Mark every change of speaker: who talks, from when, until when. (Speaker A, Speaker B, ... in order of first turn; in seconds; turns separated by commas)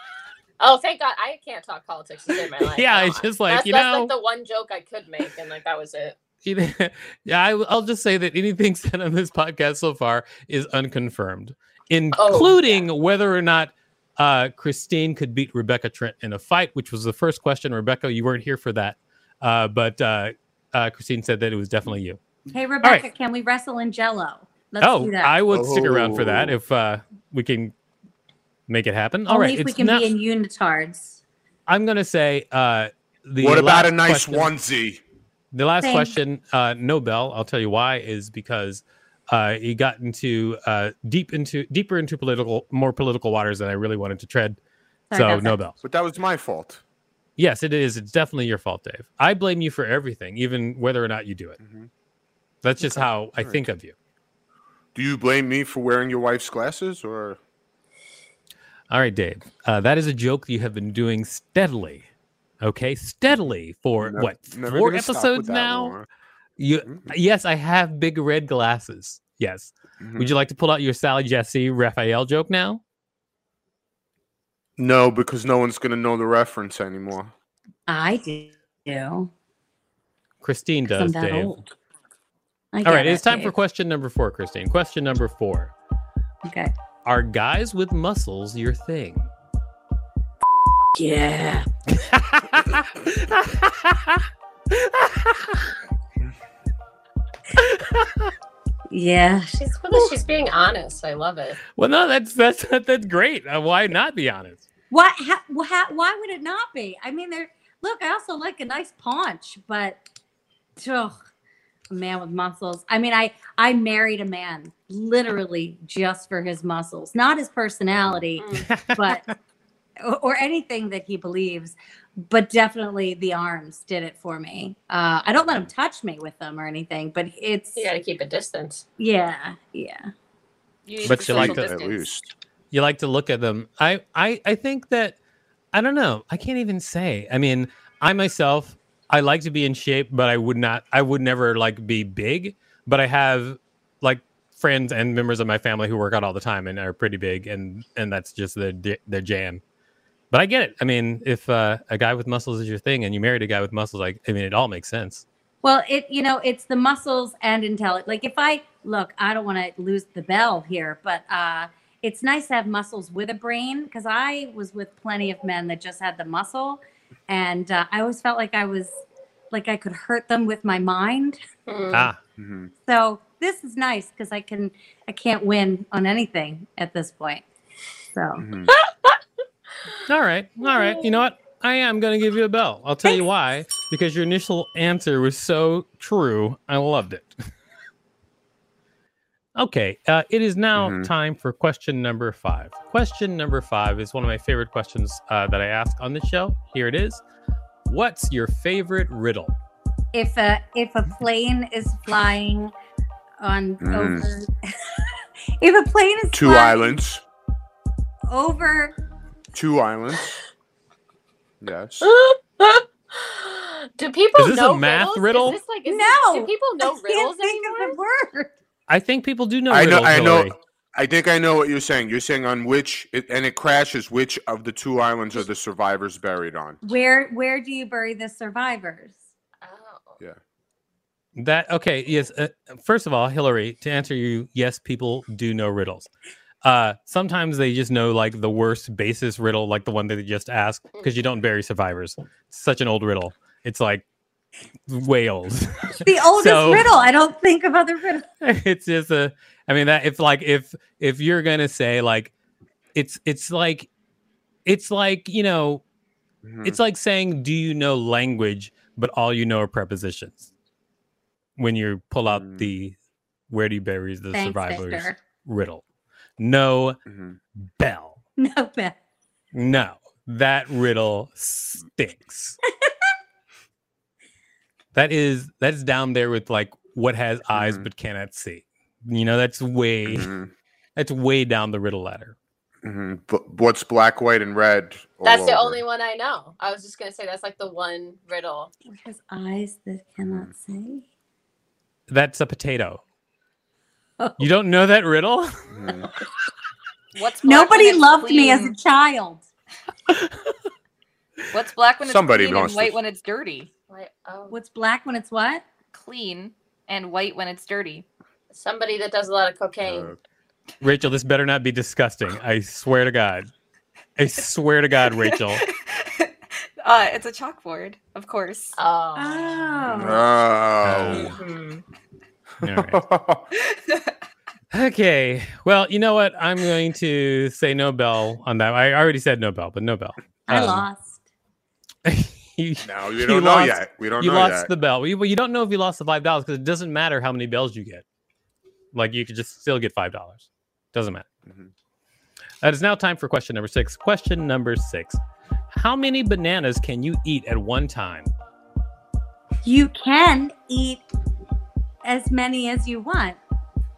Speaker A: 0.6-6.2, Speaker B: 2.6-4.1, Speaker B: 6.4-22.2, Speaker A: 12.1-12.9, Speaker C: 22.5-25.4, Speaker B: 24.8-27.7, Speaker D: 25.5-26.6, Speaker B: 28.7-30.1, Speaker C: 29.3-31.2, Speaker B: 31.7-34.5, Speaker D: 33.4-35.0, Speaker B: 35.5-44.6, Speaker C: 35.8-36.1, Speaker C: 45.1-45.6, Speaker B: 45.1-45.8, Speaker D: 45.8-46.8, Speaker B: 47.4-51.6, Speaker D: 51.6-51.9, Speaker B: 52.6-53.9, Speaker D: 52.8-53.6, Speaker D: 54.9-57.4, Speaker B: 58.9-62.0, Speaker B: 62.6-66.0, Speaker D: 64.0-66.0, Speaker B: 66.6-72.8, Speaker D: 66.8-67.1, Speaker D: 70.0-70.3, Speaker D: 74.8-77.3, Speaker C: 77.9-79.3, Speaker B: 80.4-81.5, Speaker C: 80.9-81.6, Speaker C: 82.7-83.5, Speaker B: 82.8-85.7, Speaker C: 86.5-86.7, Speaker B: 87.0-89.3, Speaker C: 91.0-91.7, Speaker B: 91.9-95.7, Speaker B: 97.5-98.3, Speaker C: 98.9-99.6, Speaker A: 99.5-101.6, Speaker B: 101.7-104.6, Speaker C: 104.9-110.0, Speaker C: 110.8-111.2, Speaker C: 111.9-119.2, Speaker A: 118.4-118.7, Speaker B: 118.5-119.3, Speaker C: 120.0-127.9, Speaker A: 127.7-128.8, Speaker C: 129.0-130.1, Speaker A: 130.9-132.1, Speaker B: 131.0-131.7, Speaker D: 131.0-132.3, Speaker B: 132.7-135.2, Speaker B: 135.7-149.6, Speaker B: 150.3-155.2, Speaker C: 155.6-171.4, Speaker A: 171.7-172.1, Speaker B: 171.9-172.2, Speaker D: 172.4-172.7, Speaker C: 172.8-177.4, Speaker C: 178.1-178.4, Speaker D: 178.4-178.7, Speaker A: 178.8-179.2, Speaker B: 180.1-187.4, Speaker B: 189.5-197.2, Speaker D: 190.7-191.1, Speaker B: 197.8-199.5, Speaker C: 200.1-202.7, Speaker C: 203.4-204.5, Speaker D: 203.8-204.3, Speaker C: 205.6-207.0, Speaker D: 206.3-207.2, Speaker C: 208.3-208.9, Speaker D: 209.5-210.3, Speaker D: 211.6-212.1, Speaker A: 212.0-218.0, Speaker B: 214.3-215.6, Speaker C: 215.8-218.5, Speaker B: 218.9-220.5, Speaker D: 219.7-226.8, Speaker C: 226.8-229.2, Speaker A: 229.6-230.2, Speaker B: 231.3-236.1, Speaker B: 236.6-244.0, Speaker B: 244.9-246.9, Speaker C: 246.0-248.2, Speaker B: 248.4-252.3, Speaker B: 252.9-253.9, Speaker B: 254.7-255.8, Speaker D: 256.4-256.8, Speaker B: 256.6-260.5, Speaker B: 261.6-262.9, Speaker D: 262.3-262.7, Speaker B: 263.5-265.8, Speaker C: 264.3-265.2, Speaker B: 266.4-267.0, Speaker D: 267.1-267.4, Speaker B: 267.8-268.2, Speaker C: 268.4-268.9, Speaker B: 269.5-272.6, Speaker B: 274.9-280.3, Speaker D: 277.5-277.9, Speaker D: 280.1-280.5, Speaker B: 280.9-282.3, Speaker D: 282.8-285.8, Speaker A: 285.2-288.7, Speaker C: 288.9-291.0, Speaker D: 290.2-290.5, Speaker B: 292.1-293.0, Speaker C: 294.2-294.4, Speaker B: 294.4-295.5, Speaker D: 295.7-296.1, Speaker E: 297.1-298.7, Speaker C: 297.4-299.4, Speaker B: 300.1-300.5, Speaker E: 301.5-303.7, Speaker D: 302.0-303.0, Speaker A: 303.9-304.5, Speaker C: 304.5-305.6, Speaker E: 305.9-308.0, Speaker A: 308.5-310.1, Speaker D: 309.8-310.1, Speaker B: 310.8-313.5, Speaker B: 314.2-315.6, Speaker E: 315.1-318.8, Speaker A: 318.8-319.9, Speaker C: 319.1-320.2, Speaker D: 319.9-321.4, Speaker B: 320.8-321.4, Speaker A: 321.1-321.8, Speaker B: 322.6-323.0, Speaker D: 322.6-323.5, Speaker E: 323.5-324.1, Speaker B: 324.7-330.9, Speaker C: 330.5-331.2, Speaker B: 332.0-338.0, Speaker D: 332.8-334.7, Speaker B: 338.9-341.2, Speaker B: 342.6-345.2, Speaker B: 345.7-348.3, Speaker C: 349.6-351.0, Speaker C: 352.0-353.4